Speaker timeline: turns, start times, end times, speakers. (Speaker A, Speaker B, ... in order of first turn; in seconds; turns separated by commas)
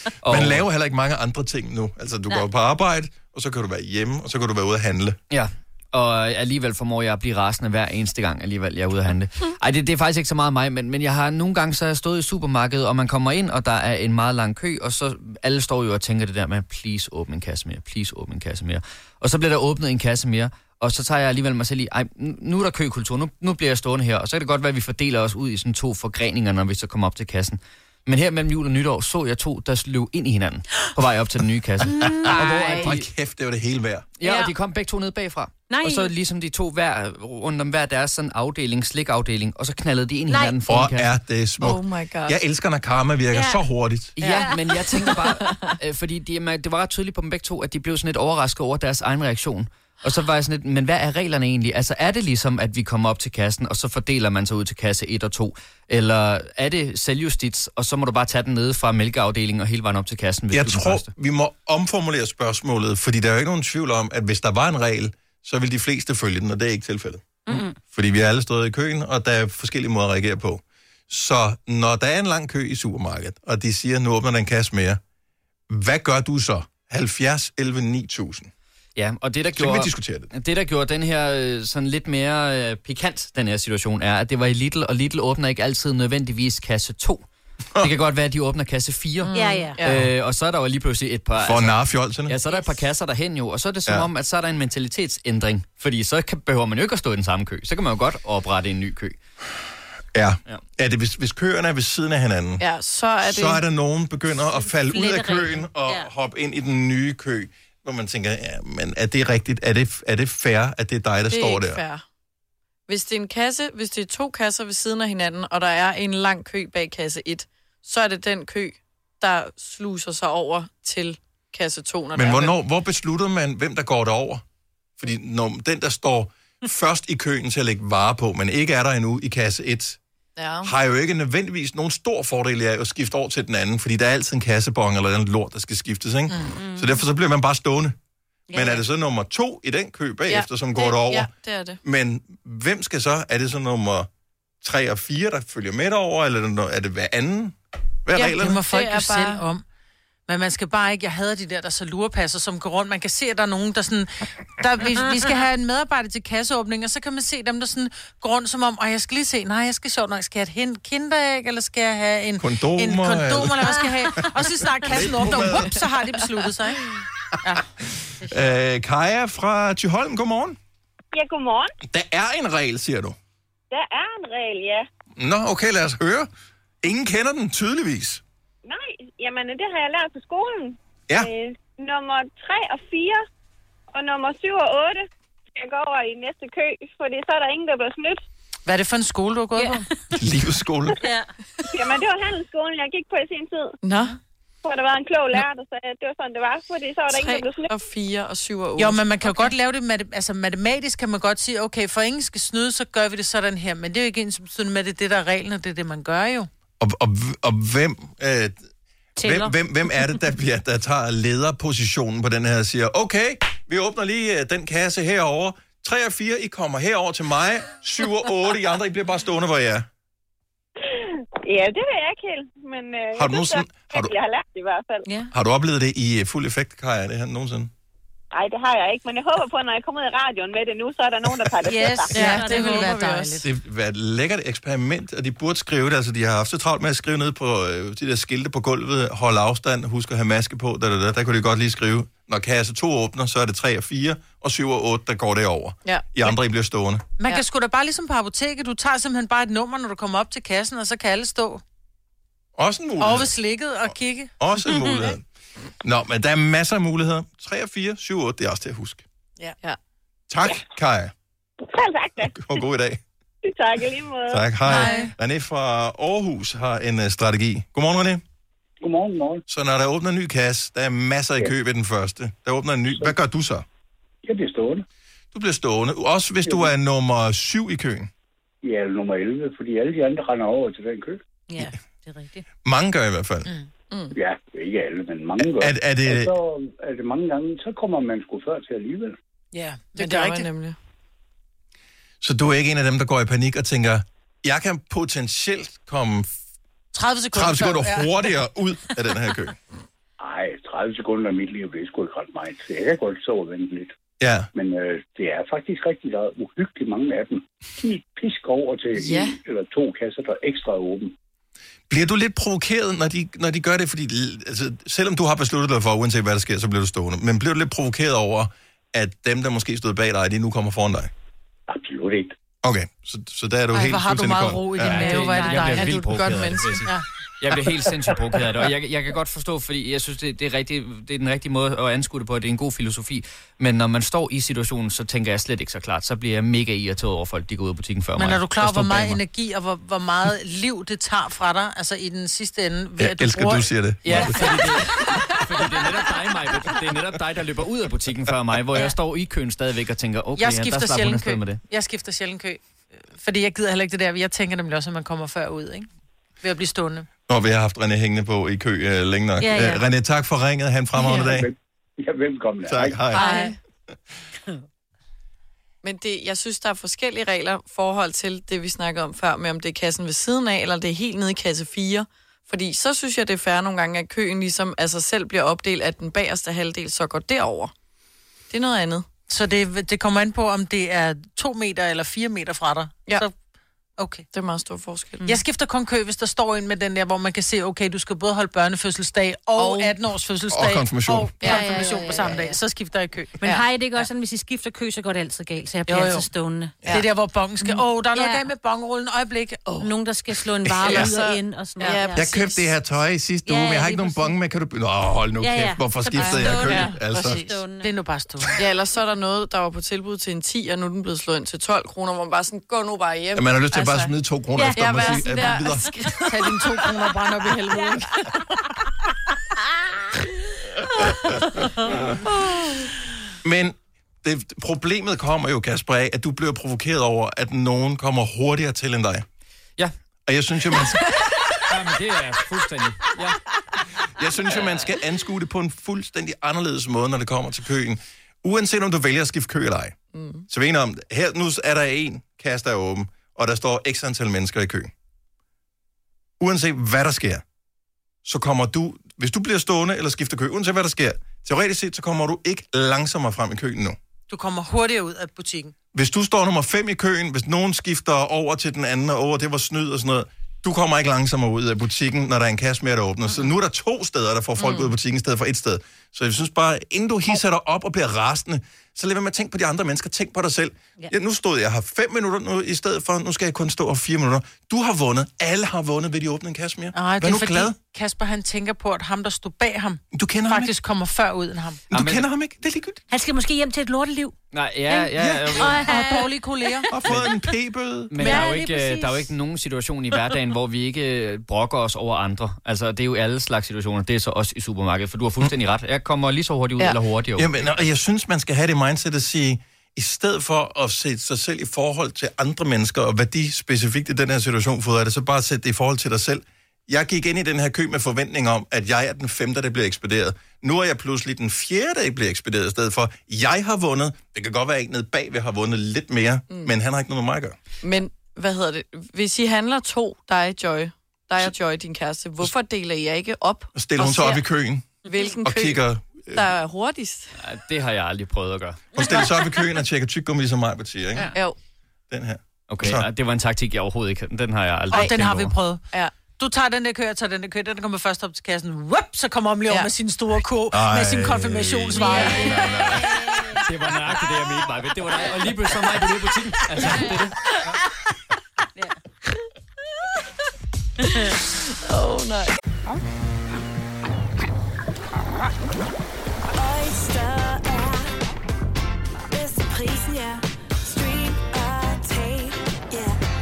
Speaker A: 0.2-0.7, Speaker B: 0.3-5.2, Speaker A: 5.3-33.1, Speaker C: 31.9-32.9, Speaker B: 32.0-34.1, Speaker A: 34.2-41.1, Speaker C: 34.2-34.5, Speaker C: 35.7-36.1, Speaker C: 40.3-40.6, Speaker B: 40.7-44.2, Speaker D: 41.6-42.4, Speaker C: 43.3-43.6, Speaker A: 44.2-61.1, Speaker D: 45.2-45.8, Speaker B: 60.5-75.0, Speaker C: 67.5-67.8, Speaker B: 75.7-78.5, Speaker A: 79.0-87.3, Speaker B: 79.6-80.3, Speaker A: 87.8-99.2, Speaker D: 89.3-90.1, Speaker C: 89.3-89.8, Speaker B: 91.4-92.3, Speaker B: 100.1-102.6, Speaker D: 102.6-103.6, Speaker B: 103.2-111.8, Speaker C: 104.8-106.1, Speaker D: 111.3-112.0, Speaker D: 112.9-122.6, Speaker B: 122.2-124.4, Speaker B: 125.0-130.0, Speaker D: 130.4-130.7, Speaker B: 130.6-137.9, Speaker C: 136.5-137.0, Speaker C: 138.5-138.8, Speaker B: 138.5-141.3, Speaker D: 140.3-141.8, Speaker B: 141.8-144.1, Speaker B: 144.6-148.6, Speaker E: 148.2-149.6, Speaker D: 148.7-149.4, Speaker E: 150.3-166.8, Speaker B: 162.4-165.8, Speaker B: 168.2-170.6, Speaker F: 171.1-171.7, Speaker B: 171.9-173.2, Speaker F: 173.7-174.9, Speaker B: 175.2-176.3, Speaker B: 176.8-178.2, Speaker F: 178.7-183.2, Speaker F: 183.9-188.2, Speaker E: 188.7-189.9, Speaker C: 189.6-189.8, Speaker B: 190.2-191.0, Speaker C: 191.0-191.3, Speaker F: 191.7-193.8, Speaker D: 193.8-194.2, Speaker F: 194.6-197.7, Speaker D: 197.1-199.1, Speaker E: 198.8-206.5, Speaker B: 206.8-208.6, Speaker C: 209.2-210.1, Speaker B: 209.2-219.9, Speaker F: 220.8-225.1, Speaker B: 223.2-224.1, Speaker B: 225.3-227.7, Speaker F: 228.3-232.1, Speaker E: 231.7-233.5, Speaker D: 232.1-233.4, Speaker C: 232.2-232.9, Speaker B: 233.4-247.1, Speaker D: 245.8-246.3, Speaker E: 247.2-251.6, Speaker B: 252.6-253.3, Speaker E: 253.0-254.3, Speaker B: 254.4-255.2, Speaker B: 255.8-259.1, Speaker B: 260.3-261.1, Speaker F: 261.6-262.6, Speaker B: 262.2-263.0, Speaker F: 263.4-264.5, Speaker B: 264.3-268.2, Speaker E: 264.7-265.1, Speaker G: 268.8-269.4, Speaker B: 269.5-273.6, Speaker G: 274.2-274.9, Speaker B: 275.3-278.1, Speaker G: 276.4-276.7, Speaker G: 278.6-281.2, Speaker C: 281.5-282.4, Speaker B: 282.6-283.5, Speaker D: 283.9-284.2, Speaker G: 284.1-289.1, Speaker B: 285.4-286.3, Speaker E: 289.5-290.5, Speaker D: 290.0-290.8, Speaker B: 292.2-296.4, Speaker E: 296.9-298.4, Speaker B: 297.3-299.6, Speaker G: 300.2-303.9, Speaker B: 304.2-304.5, Speaker G: 304.5-311.1, Speaker D: 308.9-309.4, Speaker B: 311.9-321.1, Speaker G: 321.7-322.4, Speaker B: 322.6-325.0, Speaker E: 323.7-327.1, Speaker A: 324.8-339.2, Speaker C: 325.1-325.7, Speaker D: 325.7-326.9, Speaker E: 338.2-344.5, Speaker B: 343.0-344.5, Speaker A: 344.0-351.6, Speaker E: 350.4-355.9, Speaker E: 356.4-357.1, Speaker B: 357.3-361.5, Speaker C: 359.4-359.9, Speaker G: 361.1-363.1, Speaker B: 362.7-363.2, Speaker C: 363.1-363.5, Speaker D: 363.2-363.6, Speaker D: 365.8-377.7, Speaker D: 378.5-379.1, Speaker E: 379.3-383.3, Speaker E: 384.0-384.3, Speaker D: 384.3-385.2, Speaker E: 385.2-393.4, Speaker D: 389.6-389.9, Speaker B: 390.5-391.3, Speaker D: 391.4-391.7, Speaker C: 391.4-392.5, Speaker C: 393.4-396.9, Speaker E: 395.9-396.3, Speaker E: 396.9-399.9, Speaker C: 397.6-398.4, Speaker C: 399.8-402.3, Speaker D: 400.8-402.6, Speaker B: 400.8-401.1, Speaker B: 402.1-407.4, Speaker C: 403.4-404.4, Speaker C: 405.4-407.9, Speaker E: 406.2-408.5, Speaker D: 408.6-414.1, Speaker B: 413.4-415.9, Speaker C: 414.6-415.6, Speaker D: 414.8-416.2, Speaker E: 416.2-418.2, Speaker B: 423.4-429.2, Speaker B: 430.3-431.0, Speaker A: 431.7-433.4, Speaker B: 434.1-440.0, Speaker D: 440.1-440.5, Speaker B: 440.5-444.9, Speaker B: 446.4-447.4, Speaker B: 448.2-454.0, Speaker E: 454.3-455.7, Speaker B: 455.9-477.8, Speaker D: 464.6-464.9, Speaker E: 476.9-481.9, Speaker B: 480.1-480.7, Speaker B: 481.9-483.0, Speaker A: 481.9-482.3, Speaker C: 483.1-484.4, Speaker A: 484.5-485.8, Speaker C: 484.9-486.3, Speaker B: 485.2-485.8, Speaker E: 485.8-486.9, Speaker B: 486.9-488.2, Speaker A: 488.1-497.5, Speaker E: 488.2-489.2, Speaker C: 488.2-488.6, Speaker B: 497.4-517.6, Speaker D: 516.5-516.7, Speaker D: 517.8-524.4, Speaker B: 523.7-526.5, Speaker D: 525.0-527.3, Speaker A: 527.4-528.9, Speaker B: 528.9-531.3, Speaker B: 532.1-533.1, Speaker A: 532.7-535.5, Speaker D: 534.9-535.2, Speaker E: 534.9-542.7, Speaker B: 540.7-543.2, Speaker C: 542.1-543.6, Speaker A: 543.6-547.3, Speaker D: 551.1-552.5, Speaker H: 556.5-558.2, Speaker H: 559.3-563.2